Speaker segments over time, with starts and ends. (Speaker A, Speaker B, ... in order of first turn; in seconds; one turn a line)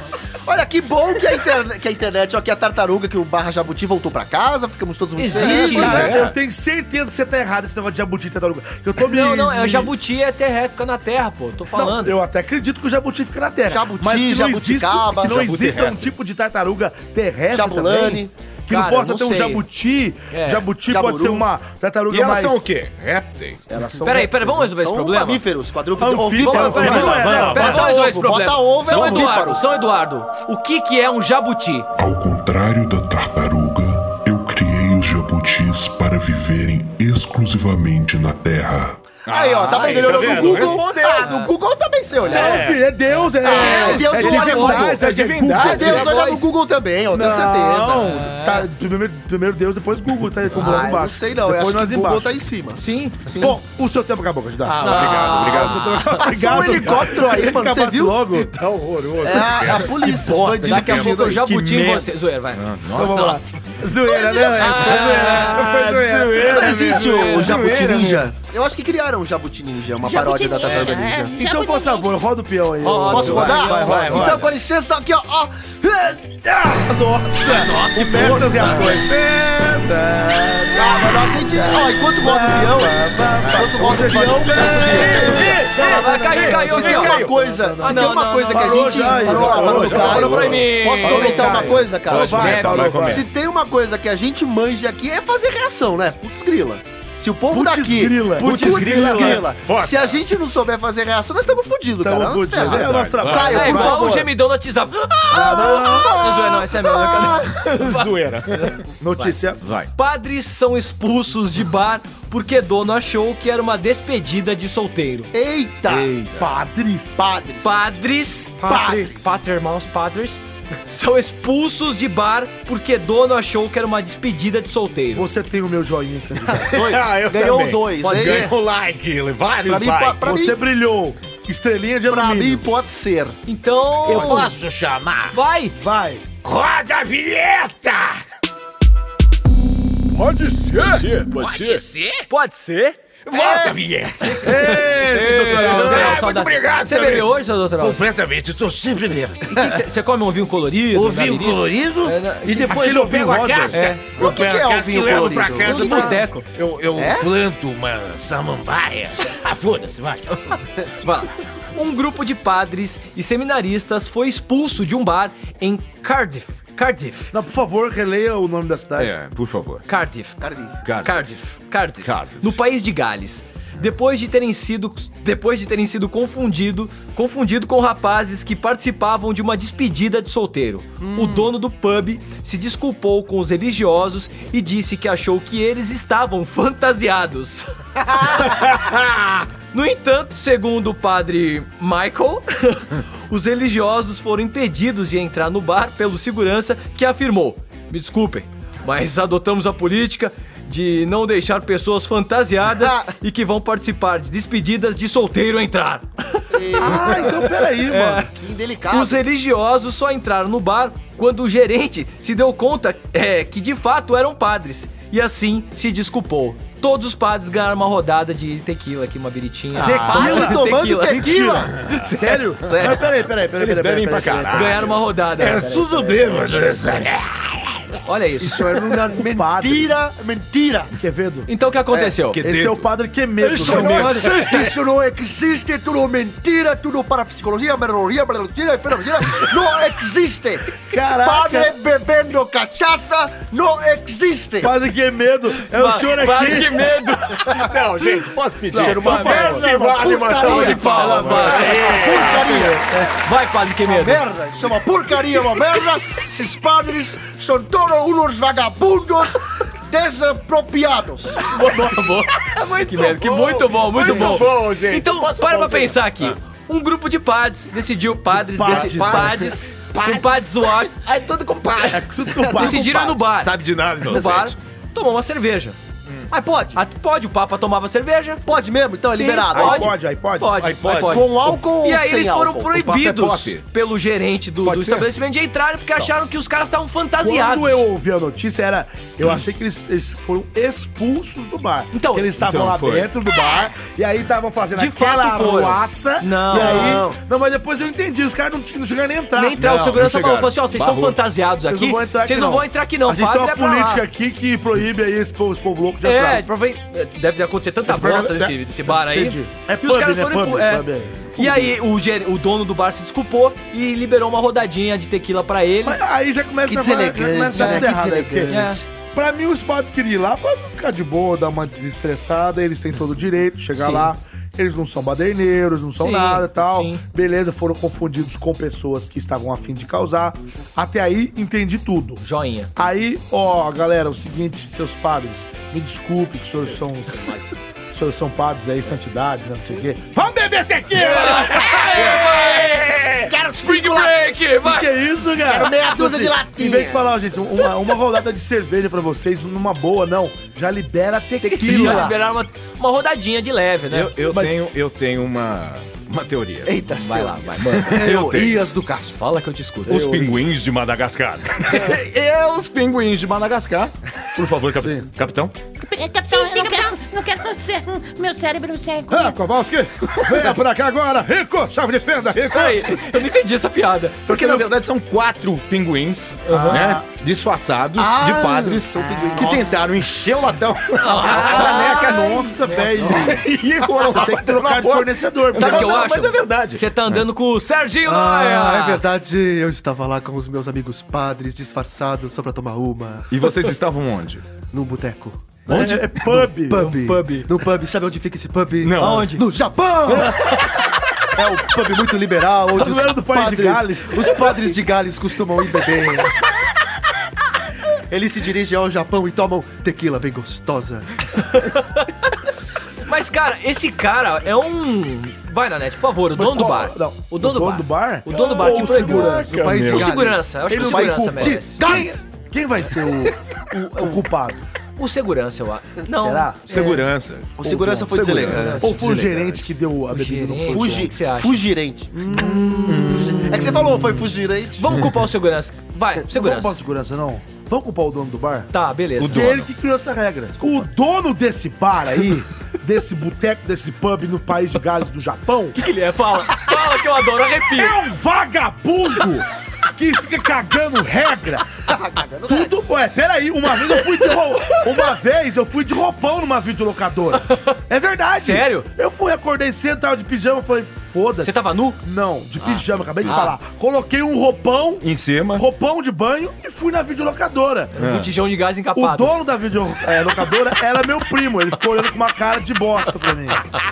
Speaker A: 0.4-6.1
Speaker B: 5.2-6.1
Speaker C: 5.3-9.9
Speaker D: 5.8-6.3
Speaker B: 9.0-12.1
Speaker C: 11.7-22.7
Speaker A: 13.7-15.4
Speaker D: 15.2-16.1
Speaker A: 17.5-18.3
Speaker B: 18.7-19.6
Speaker B: 20.3-20.6
Speaker A: 20.9-21.5
Speaker D: 22.1-23.7
Speaker C: 23.7-24.3
Speaker A: 24.0-29.7
Speaker B: 24.0-25.4
Speaker C: 25.9-27.9
Speaker B: 26.3-31.9
Speaker D: 26.9-27.6
Speaker C: 28.9-29.3
Speaker E: 32.0-39.0
Speaker D: 39.2-41.3
Speaker A: 39.3-42.7
Speaker B: 40.2-41.5
Speaker D: 42.2-42.8
Speaker C: 42.3-46.1
Speaker B: 43.1-44.9
Speaker A: 43.4-48.1
Speaker D: 44.2-46.0
Speaker B: 45.7-46.5
Speaker C: 47.1-52.4
Speaker B: 47.9-48.7
Speaker A: 50.5-52.8
Speaker B: 52.8-53.6
Speaker C: 53.4-58.5
Speaker D: 54.6-55.9
Speaker B: 54.8-56.5
Speaker A: 54.9-55.4
Speaker A: 56.2-58.2
Speaker D: 56.6-57.0
Speaker D: 58.3-63.4
Speaker A: 59.2-61.4
Speaker B: 60.6-63.5
Speaker C: 62.9-67.4
Speaker F: 64.1-64.6
Speaker B: 64.5-65.6
Speaker D: 64.7-68.3
Speaker A: 66.5-71.3
Speaker F: 70.0-72.1
Speaker B: 70.6-70.9
Speaker C: 71.4-74.5
Speaker B: 72.8-74.1
Speaker A: 73.1-76.7
Speaker D: 73.2-74.5
Speaker C: 76.6-90.5
Speaker B: 77.4-79.0
Speaker D: 77.8-79.0
Speaker A: 80.7-85.7
Speaker D: 84.5-85.6
Speaker B: 85.0-87.2
Speaker D: 86.3-87.4
Speaker A: 86.5-104.3
Speaker B: 87.8-93.0
Speaker D: 89.2-90.7
Speaker C: 91.0-93.2
Speaker D: 92.1-93.2
Speaker C: 97.5-99.4
Speaker D: 98.4-100.2
Speaker B: 98.9-99.4
Speaker C: 102.0-104.3
Speaker D: 102.5-103.8
Speaker B: 103.4-109.3
Speaker C: 105.3-106.2
Speaker A: 105.3-107.5
Speaker D: 107.7-108.8
Speaker C: 109.0-109.6
Speaker D: 109.6-109.9
Speaker B: 110.0-115.3
Speaker A: 115.3-116.1
Speaker D: 115.9-116.4
Speaker C: 116.3-117.3
Speaker A: 117.2-117.7
Speaker B: 117.6-125.3
Speaker A: 118.6-119.3
Speaker C: 125.1-126.7
Speaker D: 126.5-130.2
Speaker A: 126.7-128.5
Speaker B: 128.0-128.5
Speaker A: 129.6-130.6
Speaker C: 130.2-132.7
Speaker A: 132.1-133.4
Speaker B: 133.4-134.5
Speaker D: 134.1-135.3
Speaker B: 135.3-135.8
Speaker C: 135.8-136.2
Speaker D: 136.4-138.2
Speaker D: 140.7-142.2
Speaker B: 140.7-143.0
Speaker D: 143.2-144.8
Speaker A: 143.3-143.7
Speaker B: 144.2-148.0
Speaker C: 144.4-146.2
Speaker D: 145.5-149.6
Speaker B: 149.5-152.8
Speaker D: 150.9-160.5
Speaker C: 152.4-153.8
Speaker B: 153.7-154.0
Speaker A: 154.2-156.2
Speaker B: 155.6-156.4
Speaker A: 156.9-157.3
Speaker B: 161.0-167.3
Speaker C: 167.3-169.1
Speaker D: 169.0-169.8
Speaker B: 169.9-170.4
Speaker A: 170.4-170.8
Speaker D: 170.8-171.2
Speaker B: 171.0-187.7
Speaker D: 172.0-172.6
Speaker A: 181.0-181.5
Speaker D: 188.8-189.2
Speaker B: 189.7-207.2
Speaker A: 202.7-203.1
Speaker A: 206.5-207.5
Speaker C: 206.8-208.3
Speaker B: 207.8-208.3
Speaker A: 208.3-209.2
Speaker B: 208.9-223.0
Speaker C: 219.8-224.9
Speaker D: 219.8-220.3
Speaker A: 220.1-221.7
Speaker D: 221.8-222.0
Speaker D: 223.6-228.0
Speaker B: 224.5-226.1
Speaker B: 228.1-229.1
Speaker A: 228.5-230.9
Speaker C: 229.1-229.9
Speaker C: 230.9-231.5
Speaker B: 231.5-232.4
Speaker A: 231.9-232.2
Speaker D: 232.3-232.9
Speaker C: 232.4-234.1
Speaker B: 233.4-234.7
Speaker D: 233.5-234.7
Speaker A: 233.6-244.7
Speaker C: 240.9-241.7
Speaker C: 244.6-246.9
Speaker B: 245.7-247.7
Speaker D: 247.5-252.6
Speaker C: 248.7-249.7
Speaker A: 248.8-252.8
Speaker B: 250.3-254.2
Speaker C: 250.7-253.2
Speaker A: 253.8-261.5
Speaker B: 261.4-262.3
Speaker D: 262.4-266.4
Speaker B: 262.8-270.9
Speaker C: 264.0-264.5
Speaker C: 268.3-269.5
Speaker A: 268.6-269.7
Speaker D: 270.0-272.1
Speaker C: 271.9-273.1
Speaker A: 272.3-273.2
Speaker B: 272.6-273.5
Speaker D: 273.3-274.6
Speaker B: 274.1-275.8
Speaker A: 276.3-276.8
Speaker B: 276.7-278.4
Speaker A: 278.4-279.9
Speaker B: 279.1-287.9
Speaker C: 279.5-280.5
Speaker D: 280.6-281.6
Speaker A: 281.0-282.9
Speaker D: 282.7-283.6
Speaker D: 284.6-285.1
Speaker C: 287.2-300.0
Speaker B: 291.9-292.3
Speaker D: 292.4-293.1
Speaker B: 294.8-297.0
Speaker A: 296.5-297.2
Speaker B: 299.3-304.0
Speaker D: 299.6-301.2
Speaker C: 301.6-306.5
Speaker B: 306.0-316.0
Speaker C: 307.8-311.7
Speaker C: 315.8-332.2
Speaker A: 316.6-318.7
Speaker B: 317.5-318.8
Speaker B: 323.8-324.1
Speaker B: 326.0-327.0
Speaker B: 332.2-332.7
Speaker C: 332.8-337.4
Speaker B: 337.1-337.4
Speaker C: 337.9-342.1
Speaker B: 340.9-342.7
Speaker D: 341.3-343.3
Speaker A: 343.3-344.1
Speaker B: 343.5-344.9
Speaker C: 344.6-352.1
Speaker A: 345.5-347.0
Speaker B: 351.4-354.1
Speaker A: 351.5-352.1
Speaker D: 353.9-358.6
Speaker C: 354.3-354.6
Speaker A: 356.6-359.2
Speaker B: 359.2-360.4
Speaker D: 359.9-365.5
Speaker C: 364.7-365.1
Speaker F: 365.8-369.4
Speaker C: 369.1-372.7
Speaker D: 372.3-373.0
Speaker B: 372.5-374.7
Speaker D: 374.3-387.2
Speaker B: 376.4-376.8
Speaker C: 376.5-377.0
Speaker A: 377.9-379.9
Speaker B: 381.0-382.8
Speaker C: 381.1-383.5
Speaker C: 384.0-386.1
Speaker B: 385.6-389.0
Speaker A: 388.0-393.3
Speaker D: 393.3-394.4
Speaker A: 394.7-400.7
Speaker C: 395.7-396.9
Speaker B: 396.7-397.5
Speaker D: 398.8-399.3
Speaker B: 399.0-399.4
Speaker A: 401.3-406.4
Speaker C: 402.7-404.8
Speaker A: 408.1-411.4
Speaker B: 411.4-412.1
Speaker B: 413.0-421.8
Speaker C: 416.3-419.6
Speaker A: 418.4-422.2
Speaker D: 418.6-420.2
Speaker C: 420.6-424.6
Speaker B: 423.7-424.1
Speaker B: 425.0-426.5
Speaker C: 426.1-426.6
Speaker D: 426.7-427.5
Speaker A: 427.6-429.2
Speaker C: 427.6-431.1
Speaker D: 428.1-429.6
Speaker B: 428.5-429.1
Speaker B: 430.1-431.6
Speaker A: 430.6-432.1
Speaker C: 432.1-433.8
Speaker A: 432.7-435.0
Speaker D: 432.9-433.5
Speaker B: 434.8-436.7
Speaker C: 436.3-438.7
Speaker B: 438.7-439.7
Speaker D: 439.2-439.6
Speaker C: 439.2-445.8
Speaker B: 445.7-448.0
Speaker C: 447.7-451.8
Speaker A: 451.9-452.7
Speaker C: 452.4-467.9
Speaker B: 457.5-457.7
Speaker B: 458.4-458.9
Speaker B: 461.4-462.0
Speaker B: 462.6-463.6
Speaker D: 465.0-465.6
Speaker B: 467.9-469.4
Speaker D: 468.0-468.3
Speaker C: 468.9-473.6